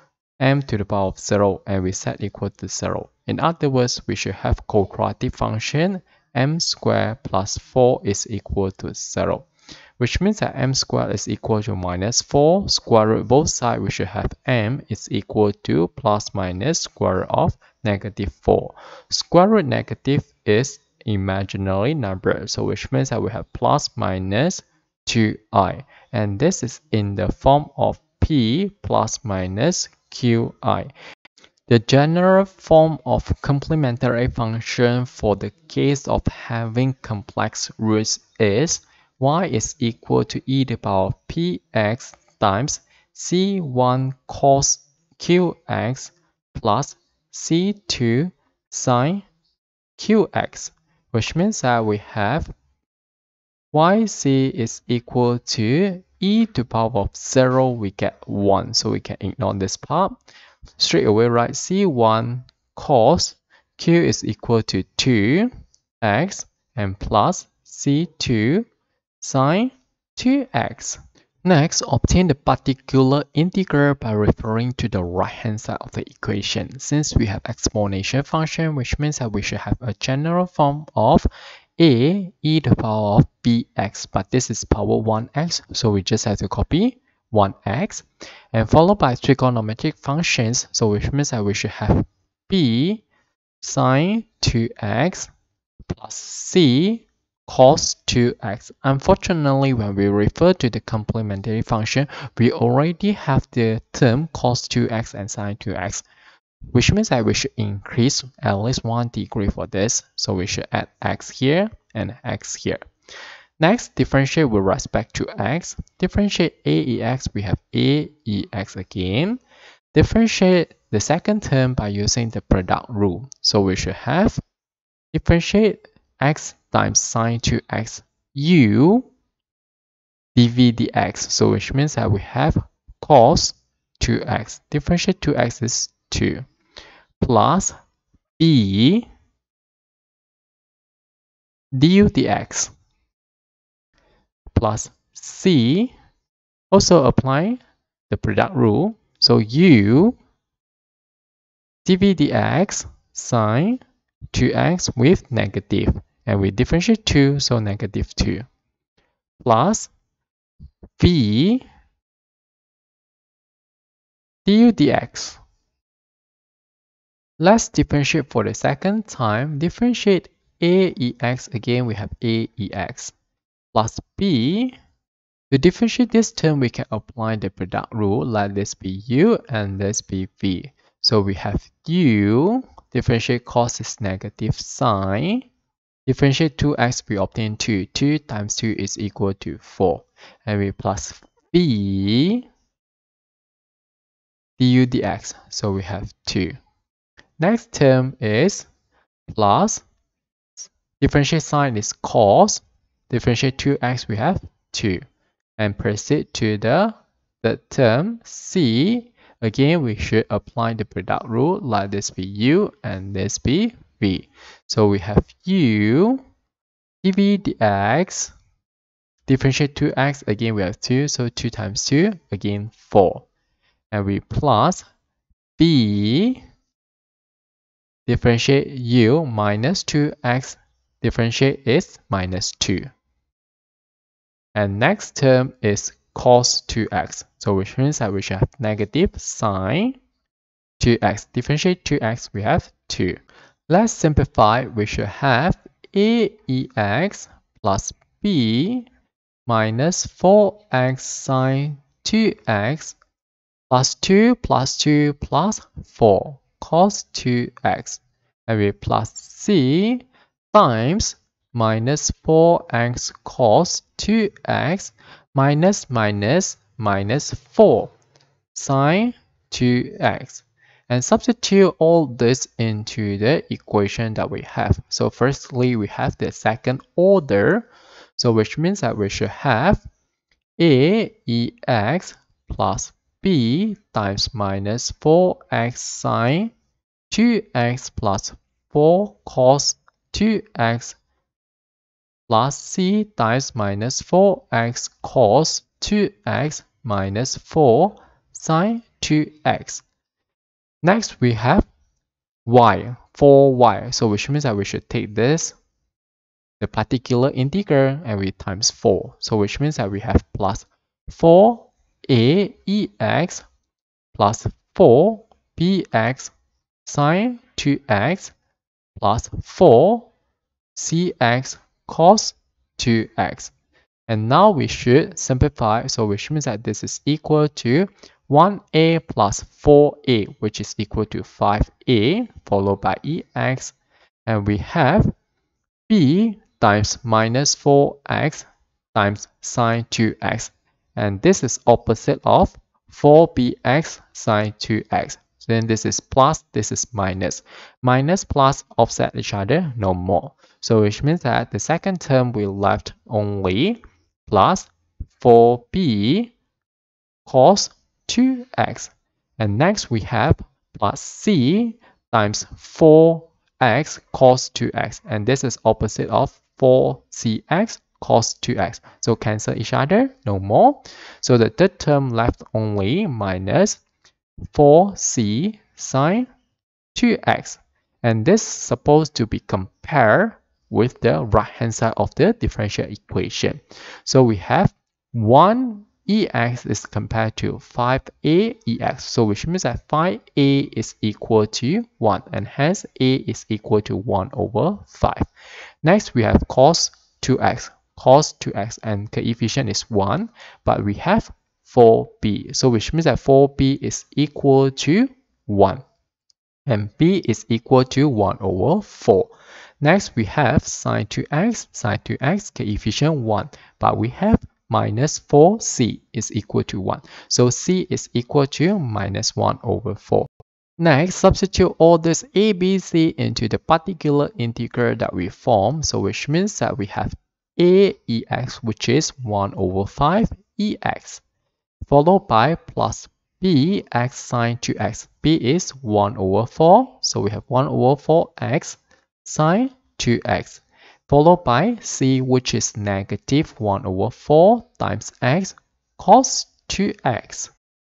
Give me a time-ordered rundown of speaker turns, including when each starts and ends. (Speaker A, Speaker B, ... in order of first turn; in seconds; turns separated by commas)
Speaker A: 0.4-9.5, Speaker A: 10.0-30.9, Speaker A: 31.7-49.3, Speaker A: 50.0-52.5, Speaker A: 53.7-60.2, Speaker A: 60.8-65.5, Speaker A: 66.0-68.7, Speaker A: 69.2-81.3, Speaker A: 81.8-93.0, Speaker A: 93.6-95.3, Speaker A: 95.9-106.0, Speaker A: 106.7-112.8, Speaker A: 113.6-119.4, Speaker A: 119.9-124.4, Speaker A: 125.1-129.1, Speaker A: 130.3-136.5, Speaker A: 137.2-137.7, Speaker A: 138.4-139.1, Speaker A: 141.7-142.7, Speaker A: 144.5-145.9, Speaker A: 146.7-150.2, Speaker A: 151.8-153.8, Speaker A: 154.3-158.4, Speaker A: 159.4-159.9, Speaker A: 161.0-161.6, Speaker A: 164.4-165.4, Speaker A: 167.4-173.1, Speaker A: 173.7-174.8, Speaker A: 175.5-185.5, Speaker A: 186.1-192.4, Speaker A: 194.6-196.6, Speaker A: 197.4-198.7, Speaker A: 199.3-199.8, Speaker A: 200.6-205.0, Speaker A: 205.6-216.2, Speaker A: 217.0-218.3, Speaker A: 219.3-223.2, Speaker A: 223.9-224.8, Speaker A: 225.6-226.4, Speaker A: 228.1-232.9, Speaker A: 234.5-240.0, Speaker A: 240.8-248.9, Speaker A: 249.5-253.0, Speaker A: 253.7-267.9, Speaker A: 268.5-279.8, Speaker A: 280.6-286.5, Speaker A: 287.1-291.0, Speaker A: 292.3-299.8, Speaker A: 300.8-301.7, Speaker A: 302.4-305.6, Speaker A: 306.6-313.4, Speaker A: 314.1-316.3, Speaker A: 316.8-318.3, Speaker A: 319.0-320.1, Speaker A: 320.7-323.5, Speaker A: 324.1-333.7, Speaker A: 334.3-335.1, Speaker A: 335.9-356.3, Speaker A: 357.2-373.8, Speaker A: 374.5-376.3, Speaker A: 376.9-395.3, Speaker A: 395.8-405.8, Speaker A: 406.6-431.2, Speaker A: 431.8-447.5